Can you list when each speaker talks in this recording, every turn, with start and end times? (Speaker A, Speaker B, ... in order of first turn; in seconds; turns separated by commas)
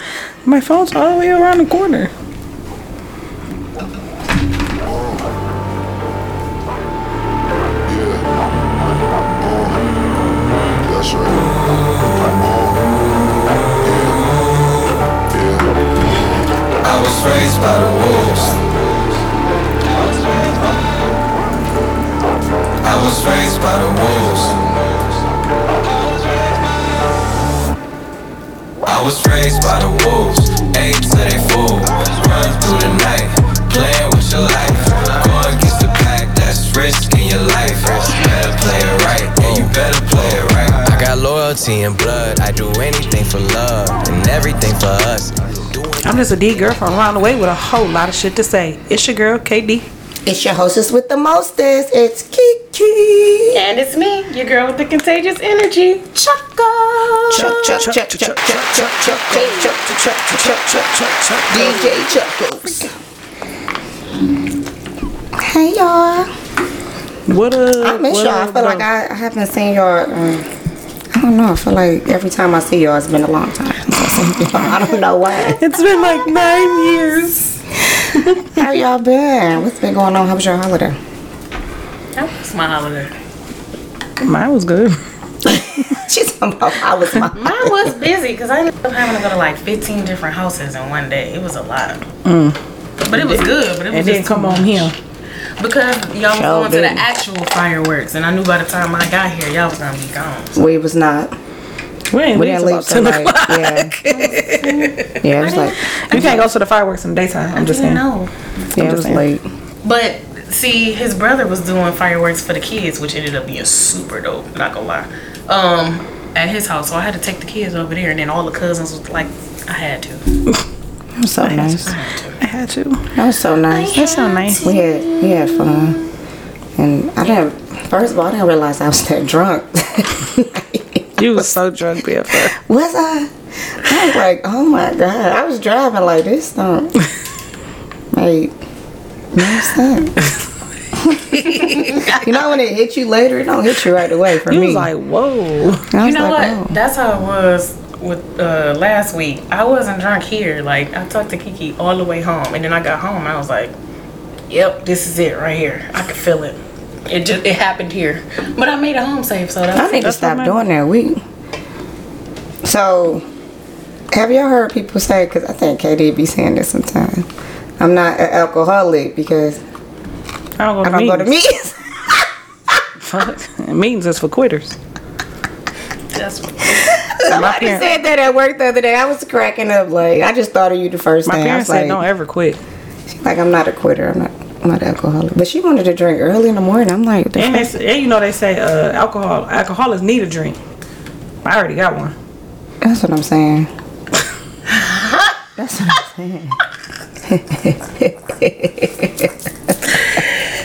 Speaker A: 0.4-2.1, Speaker B: 4.8-5.3, Speaker B: 7.9-8.4, Speaker B: 9.4-9.9, Speaker B: 10.8-13.0, Speaker B: 13.8-14.4, Speaker B: 15.3-15.8, Speaker C: 16.8-18.7, Speaker C: 20.0-20.8, Speaker C: 22.8-24.7, Speaker C: 28.8-46.7, Speaker A: 46.0-49.9, Speaker D: 50.2-53.6, Speaker E: 53.5-57.8, Speaker A: 57.3-59.3, Speaker D: 57.3-60.7, Speaker E: 59.3-59.6, Speaker A: 60.1-61.9, Speaker D: 61.5-62.9, Speaker D: 65.3-66.3, Speaker A: 67.3-68.8, Speaker D: 67.8-70.5, Speaker D: 71.1-75.6, Speaker A: 75.6-77.6, Speaker D: 78.5-81.0, Speaker E: 82.1-83.1, Speaker A: 84.2-85.0, Speaker D: 85.5-87.8, Speaker E: 87.3-92.0, Speaker A: 92.2-92.6, Speaker E: 93.1-94.9, Speaker A: 93.1-93.4, Speaker A: 93.9-94.9, Speaker E: 95.6-100.6, Speaker D: 96.3-97.0, Speaker D: 100.5-101.3, Speaker A: 102.1-104.9, Speaker D: 102.3-103.9, Speaker E: 104.1-106.4, Speaker D: 105.2-106.4, Speaker A: 106.1-108.0, Speaker E: 107.5-108.3, Speaker D: 108.7-109.4, Speaker A: 108.8-109.2, Speaker E: 109.8-120.3, Speaker D: 121.2-121.9, Speaker E: 121.5-122.4, Speaker A: 122.4-123.1, Speaker D: 123.1-126.0, Speaker E: 123.7-126.0, Speaker A: 123.9-124.7, Speaker D: 126.8-131.4, Speaker A: 131.2-132.5, Speaker D: 132.5-133.3, Speaker D: 133.8-136.9, Speaker D: 138.1-138.5, Speaker D: 139.3-140.2, Speaker D: 141.0-141.4, Speaker A: 141.4-141.7, Speaker E: 141.5-142.3, Speaker D: 142.1-144.9, Speaker A: 144.5-145.9, Speaker D: 145.9-146.8, Speaker E: 146.0-153.7, Speaker E: 154.5-160.0, Speaker D: 159.7-161.2, Speaker A: 160.0-160.6, Speaker D: 162.6-163.2, Speaker D: 164.1-167.3, Speaker D: 167.8-169.6, Speaker A: 170.6-171.3, Speaker D: 170.8-172.7, Speaker A: 173.1-174.8, Speaker E: 176.1-177.0, Speaker D: 177.1-182.0, Speaker A: 177.3-177.9, Speaker A: 181.2-182.6, Speaker D: 183.1-187.7, Speaker A: 187.4-190.6, Speaker A: 191.4-192.1, Speaker D: 192.8-193.7, Speaker D: 195.6-196.6, Speaker D: 197.2-199.3